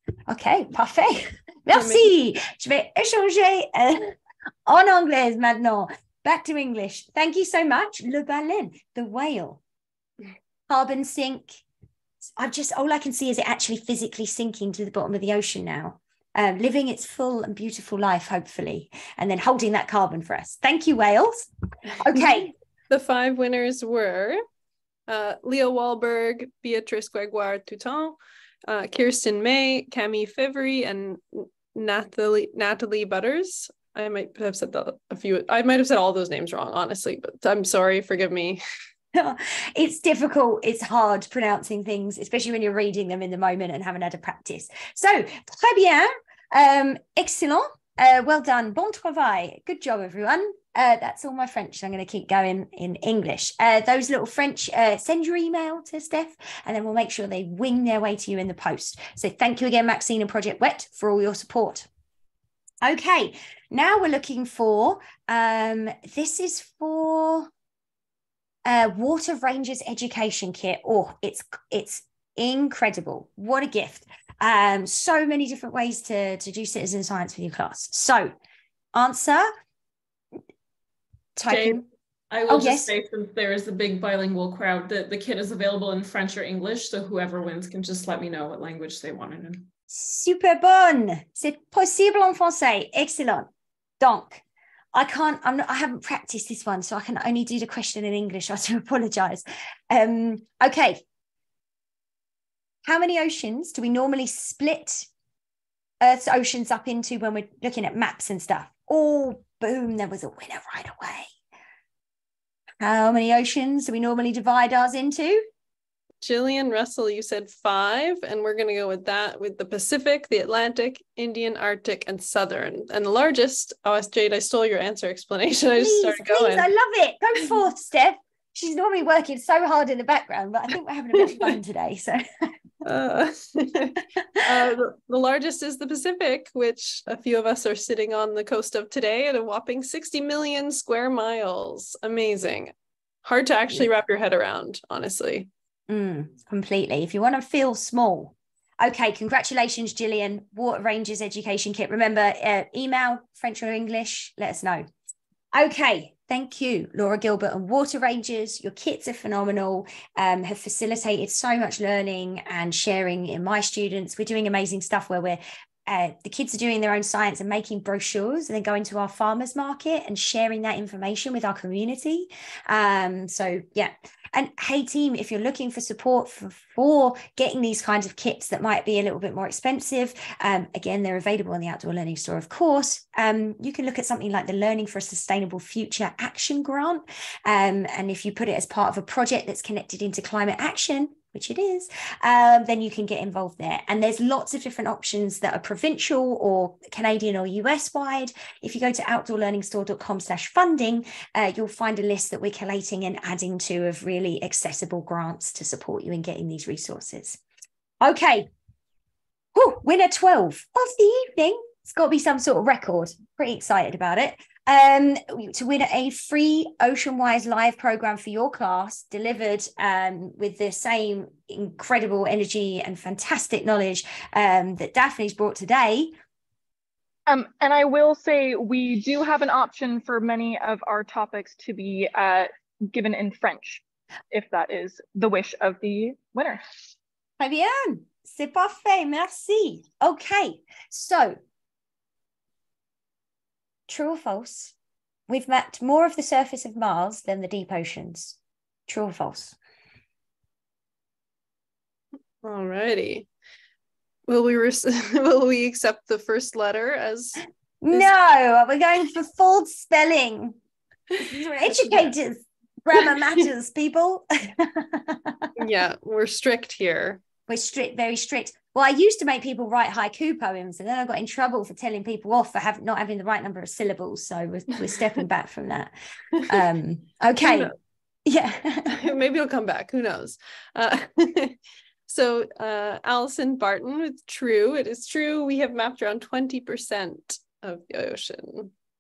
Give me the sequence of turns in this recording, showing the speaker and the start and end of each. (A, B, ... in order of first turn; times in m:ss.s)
0:00.3-0:09.6 A
0:01.7-0:02.1 B
0:10.7-0:11.6 A
0:12.4-0:22.5 A
0:22.9-0:24.4 B
0:25.1-0:38.6 B
0:39.2-1:01.9 A
1:02.8-1:07.5 A
1:08.7-1:18.3 A
1:19.0-1:19.5 A
1:21.4-1:21.8 A
1:21.5-1:29.7 C
1:22.5-1:22.9 A
1:29.9-1:33.5 A
1:34.0-1:34.4 A
1:34.9-1:41.0 A
1:42.8-1:45.1 A
1:46.0-1:51.3 A
1:52.8-1:55.5 A
1:56.2-2:06.7 B
2:05.8-2:12.5 A
2:12.8-2:22.7 B
2:23.2-2:25.5 B
2:25.9-2:34.9 A
2:35.5-3:27.4 A
3:28.0-3:28.5 A
3:29.6-3:46.1 A
3:47.3-3:56.6 D
3:57.4-4:01.4 A
4:03.9-4:04.7 A
4:05.3-4:09.6 A
4:12.4-4:13.3 B
4:14.3-4:18.1 B
4:17.8-4:20.6 A
4:21.2-4:25.5 A
4:21.7-4:22.1 B
4:25.6-4:27.2 B
4:27.5-4:35.9 A
4:36.4-4:37.7 A
4:37.4-4:37.7 B
4:38.3-4:39.1 A
4:38.9-4:48.7 B